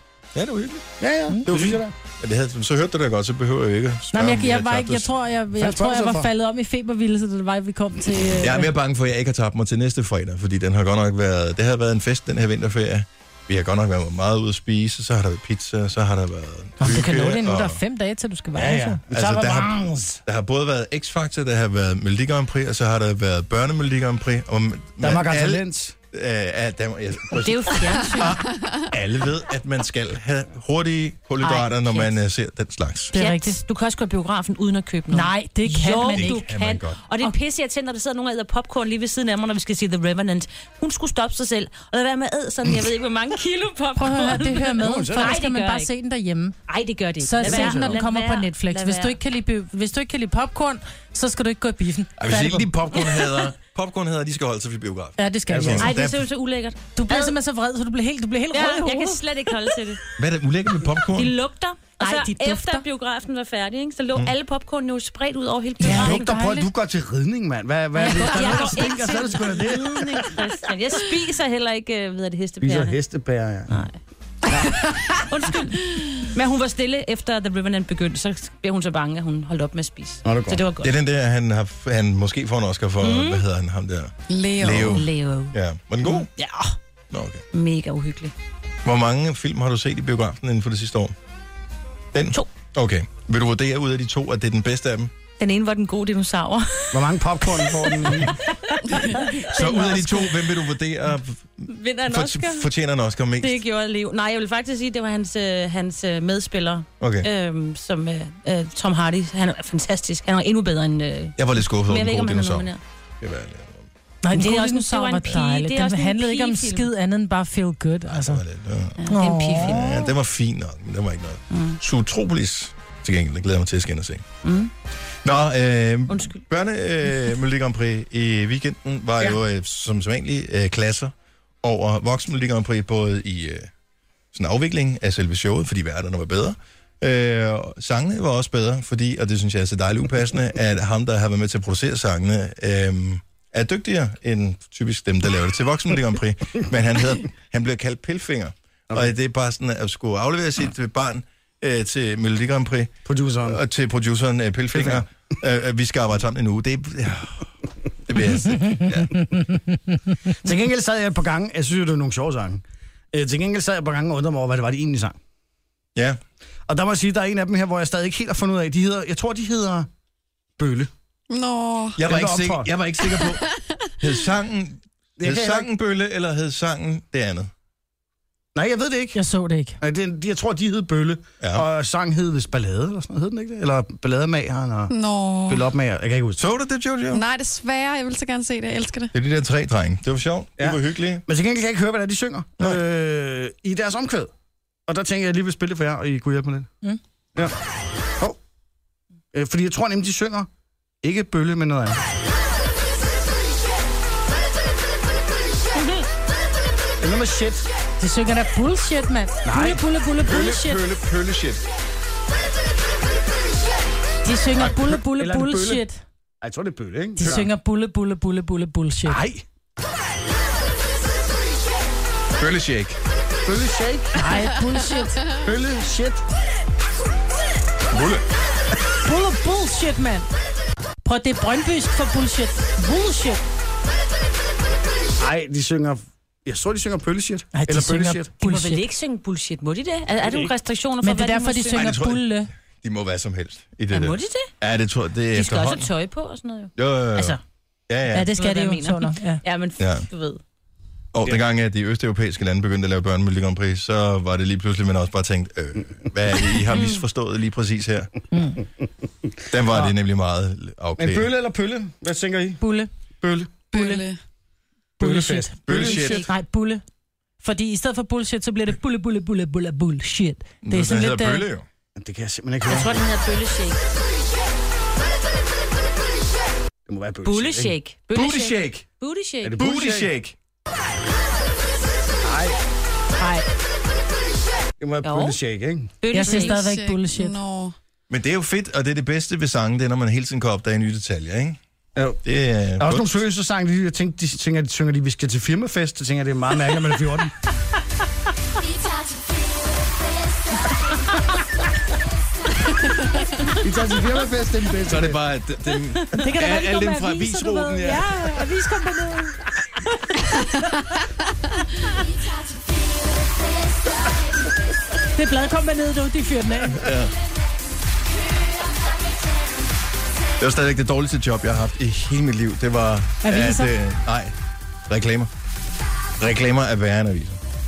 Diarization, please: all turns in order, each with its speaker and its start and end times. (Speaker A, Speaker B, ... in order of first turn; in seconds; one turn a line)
Speaker A: 0.3-0.9
Speaker B: 1.0-1.9
Speaker A: 1.4-5.1
Speaker C: 4.1-8.7
Speaker B: 5.5-6.3
Speaker A: 8.4-17.8
Speaker C: 16.8-19.0
Speaker B: 18.5-20.2
Speaker A: 19.1-19.7
Speaker A: 20.2-33.1
Speaker B: 25.0-25.9
Speaker D: 27.4-28.4
Speaker E: 28.5-28.8
Speaker D: 31.4-32.1
Speaker C: 33.1-33.6
Speaker D: 33.1-45.9
Speaker C: 35.1-36.5
Speaker A: 36.1-37.0
Speaker C: 44.0-46.6
Speaker B: 44.8-45.3
Speaker D: 46.7-49.2
Speaker C: 47.2-52.7
Speaker B: 47.4-47.9
Speaker A: 52.2-56.1
Speaker C: 55.2-56.0
Speaker B: 55.5-56.0
Speaker D: 55.8-57.3
Speaker C: 56.9-59.2
Speaker D: 58.5-60.0
Speaker A: 60.2-61.3
Speaker D: 61.1-66.3
Speaker C: 62.0-62.8
Speaker B: 65.8-70.3
Speaker C: 65.8-66.7
Speaker C: 68.0-68.9
Speaker D: 68.0-73.0
Speaker B: 72.6-73.7
Speaker D: 73.7-73.9
Speaker D: 75.2-80.9
Speaker B: 80.2-80.6
Speaker A: 80.8-86.3
Speaker D: 83.0-83.4
Speaker E: 84.3-85.0
Speaker D: 84.9-86.7
Speaker A: 87.1-87.4
Speaker D: 87.5-88.3
Speaker A: 88.8-91.1
Speaker A: 92.1-95.1
Speaker D: 95.4-100.3
Speaker B: 96.9-98.3
Speaker A: 99.4-103.5
Speaker D: 101.7-102.7
Speaker D: 103.4-112.8
Speaker A: 107.0-107.3
Speaker A: 111.4-112.7
Speaker A: 113.2-113.9
Speaker C: 114.2-118.4
Speaker D: 114.3-116.9
Speaker A: 118.1-119.1
Speaker D: 119.0-120.1
Speaker C: 119.1-119.9
Speaker A: 119.6-124.2
Speaker D: 121.5-121.8
Speaker D: 124.4-124.7
Speaker A: 125.2-133.7
Speaker D: 126.1-126.4
Speaker A: 134.3-152.9
Speaker B: 153.1-153.6
Speaker A: 153.4-157.5
Speaker B: 154.7-155.1
Speaker A: 158.1-159.4
Speaker B: 160.4-165.2
Speaker B: 166.7-169.9
Speaker B: 170.6-170.9
Speaker E: 171.3-172.0
Speaker A: 171.9-173.4
Speaker B: 172.0-172.7
Speaker A: 174.0-177.5
Speaker B: 175.2-175.7
Speaker B: 178.5-179.2
Speaker C: 179.1-179.8
Speaker B: 179.8-184.9
Speaker E: 184.9-185.7
Speaker B: 185.4-186.4
Speaker A: 186.4-187.2
Speaker E: 187.1-189.1
Speaker A: 189.1-191.2
Speaker B: 190.6-194.3
Speaker B: 194.9-196.7
Speaker B: 199.3-200.5
Speaker B: 201.0-202.0
Speaker B: 207.0-207.7
Speaker C: 208.0-210.8
Speaker B: 209.4-209.8
Speaker A: 210.2-211.6
Speaker C: 214.2-216.0
Speaker B: 214.6-215.8
Speaker B: 216.4-217.5
Speaker C: 217.2-219.2
Speaker A: 217.2-217.5
Speaker B: 219.1-219.4
Speaker A: 222.4-223.0
Speaker B: 223.4-224.2
Speaker C: 224.2-225.2
Speaker B: 225.3-226.2
Speaker A: 227.9-228.2
Speaker C: 229.0-230.3
Speaker C: 231.0-233.5
Speaker B: 235.2-238.3
Speaker C: 237.5-238.8
Speaker D: 238.4-241.8
Speaker B: 240.2-240.5
Speaker C: 241.0-242.5
Speaker A: 241.7-242.3
Speaker A: 242.8-245.9
Speaker D: 243.9-244.5
Speaker D: 245.3-247.4
Speaker A: 246.8-247.4
Speaker A: 247.9-248.3
Speaker C: 248.1-249.4
Speaker D: 248.3-250.4
Speaker A: 249.8-250.1
Speaker A: 251.1-258.1
Speaker D: 256.7-257.0
Speaker C: 258.3-258.6
Speaker A: 259.5-261.3
Speaker B: 259.5-259.9
Speaker B: 261.0-262.6
Speaker C: 262.6-262.9
Speaker B: 263.2-263.6
Speaker E: 263.7-264.2
Speaker C: 263.7-264.0
Speaker B: 265.0-266.2
Speaker C: 265.0-266.8
Speaker A: 265.6-266.3
Speaker C: 267.4-271.4
Speaker A: 270.6-271.6
Speaker B: 271.9-273.0
Speaker D: 272.6-273.8
Speaker B: 276.9-277.7
Speaker D: 277.2-279.6
Speaker A: 278.1-278.8
Speaker B: 279.4-280.1
Speaker A: 279.6-280.3
Speaker B: 282.2-282.6
Speaker C: 283.2-283.5
Speaker B: 284.8-285.9
Speaker D: 285.0-285.4
Speaker D: 286.0-286.7
Speaker C: 286.1-287.4
Speaker E: 286.2-287.7
Speaker A: 288.1-291.6
Speaker B: 291.9-292.2
Speaker A: 292.2-293.1
Speaker B: 292.8-297.3
Speaker B: 303.6-305.2
Speaker A: 304.9-308.1
Speaker C: 306.1-309.4
Speaker C: 310.0-310.8
Speaker C: 315.1-316.8
Speaker A: 316.7-317.1
Speaker A: 320.4-324.3
Speaker C: 323.2-323.7
Speaker A: 324.9-325.3
Speaker A: 326.2-327.4